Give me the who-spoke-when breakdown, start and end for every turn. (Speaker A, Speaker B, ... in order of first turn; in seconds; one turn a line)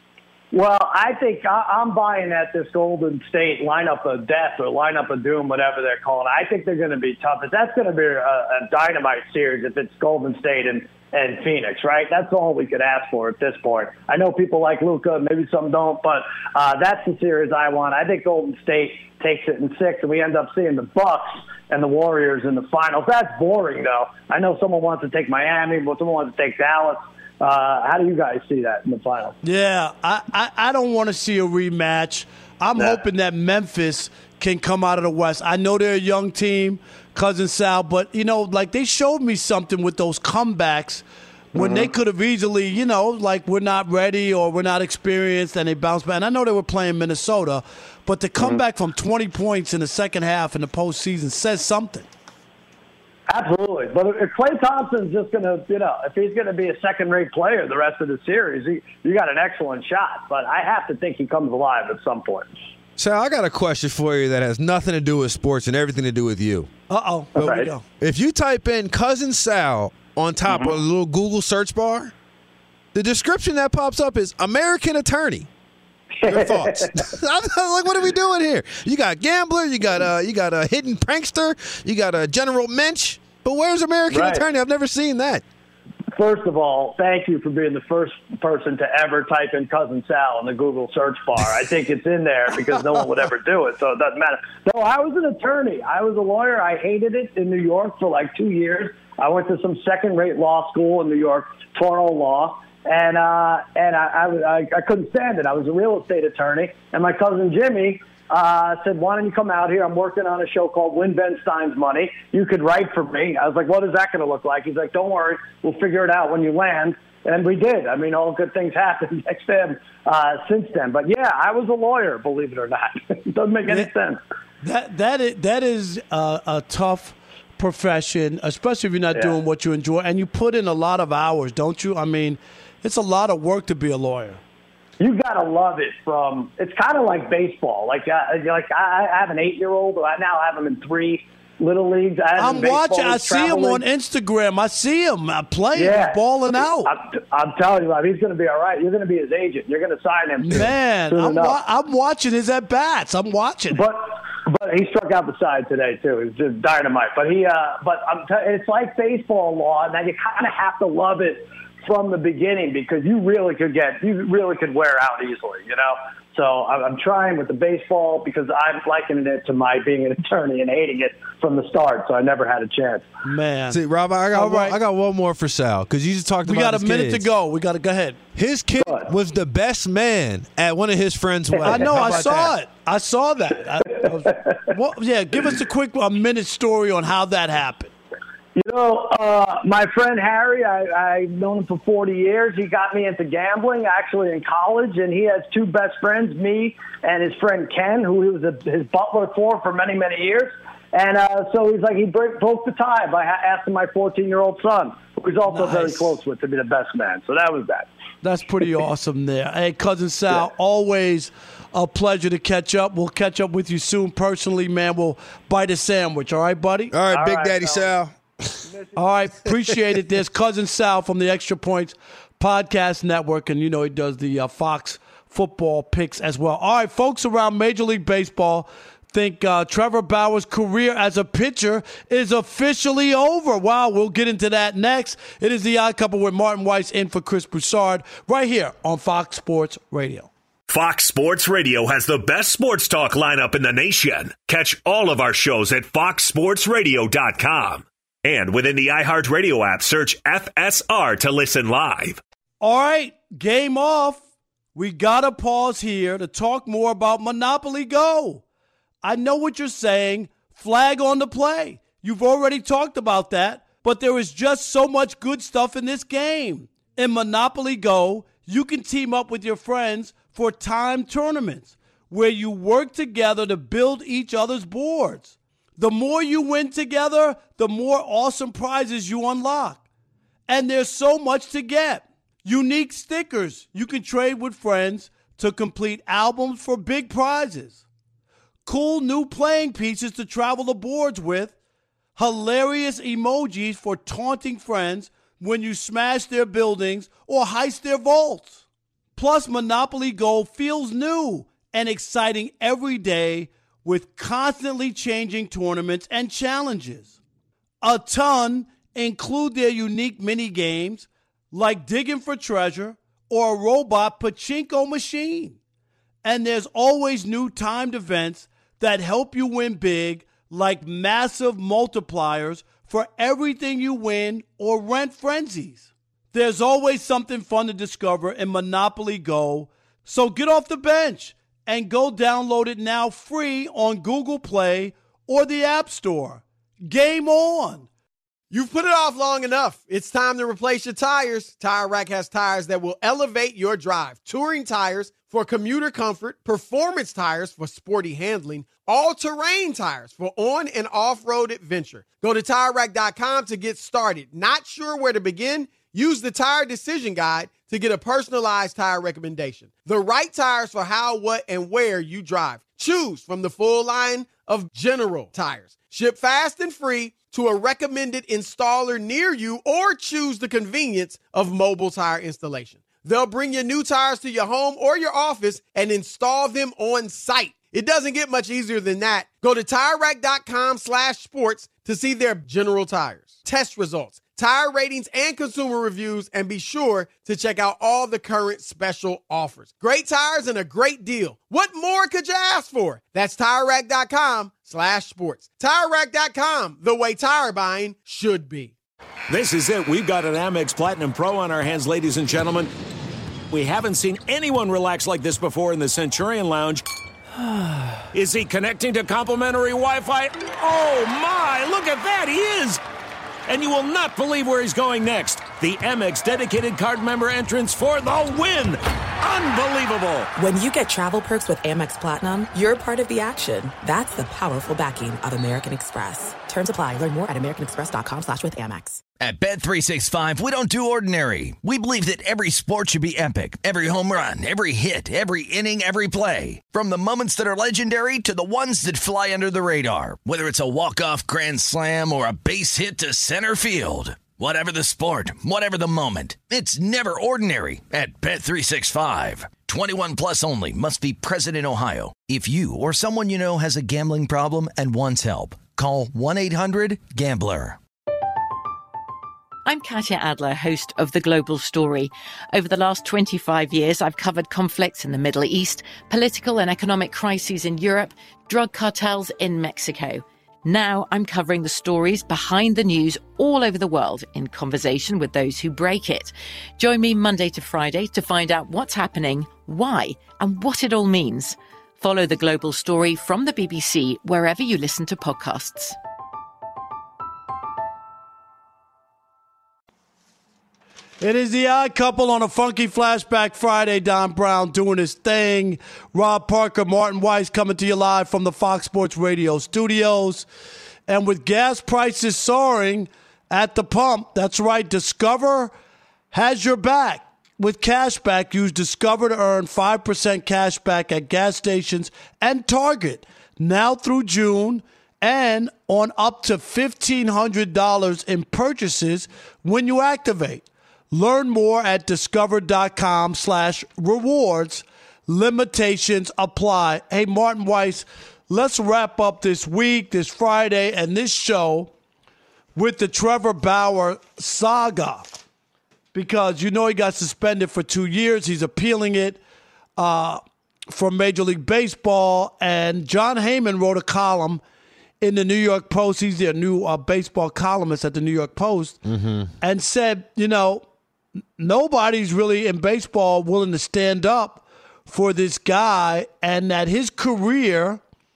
Speaker A: 0.5-29.4
Speaker B: 29.4-52.1
Speaker A: 32.8-33.0
Speaker A: 41.5-41.9
Speaker A: 53.3-62.5
Speaker C: 63.0-66.7
Speaker B: 66.9-67.8
Speaker C: 67.3-72.1
Speaker A: 67.4-67.7
Speaker A: 70.5-70.8
Speaker C: 72.9-75.5
Speaker A: 76.2-77.1
Speaker C: 76.2-85.4
Speaker A: 84.1-84.4
Speaker A: 86.1-124.2
Speaker B: 123.7-123.9
Speaker B: 124.6-134.4
Speaker A: 135.0-143.8
Speaker B: 142.3-146.9
Speaker A: 145.7-146.2
Speaker A: 146.8-151.6
Speaker B: 150.4-153.8
Speaker A: 153.7-173.1
Speaker B: 173.2-173.8
Speaker C: 173.7-177.3
Speaker B: 174.3-174.8
Speaker B: 176.4-178.2
Speaker C: 178.3-182.5
Speaker A: 178.8-179.1
Speaker A: 181.5-181.8
Speaker B: 181.6-187.9
Speaker A: 188.6-207.9
Speaker B: 205.4-206.2
Speaker B: 208.2-216.9
Speaker C: 216.9-218.6
Speaker A: 217.1-217.9
Speaker B: 218.9-240.3
Speaker D: 240.7-252.2
Speaker B: 252.6-254.2
Speaker B: 254.7-258.4
Speaker B: 259.0-279.8
Speaker B: 280.5-287.8
Speaker B: 288.6-291.5
Speaker B: 292.1-298.6
Speaker B: 299.1-307.1
Speaker B: 307.8-315.6
Speaker B: 316.2-337.9
Speaker E: 338.5-398.7
Speaker F: 399.3-402.7
Speaker F: 403.5-406.8
Speaker F: 408.1-412.8
Speaker F: 413.5-420.3
Speaker G: 420.4-429.0
Speaker H: 429.2-457.8
Speaker I: 459.6-485.9
Speaker B: 491.2-500.4
Speaker B: 501.1-505.7
Speaker B: 506.3-531.9
Speaker B: 532.7-535.3
Speaker B: 536.1-539.4
Speaker B: 540.0-540.4
Speaker B: 540.9-544.6
Speaker B: 545.2-549.0
Speaker C: 549.0-549.5
Speaker B: 549.6-550.8
Speaker B: 551.6-558.0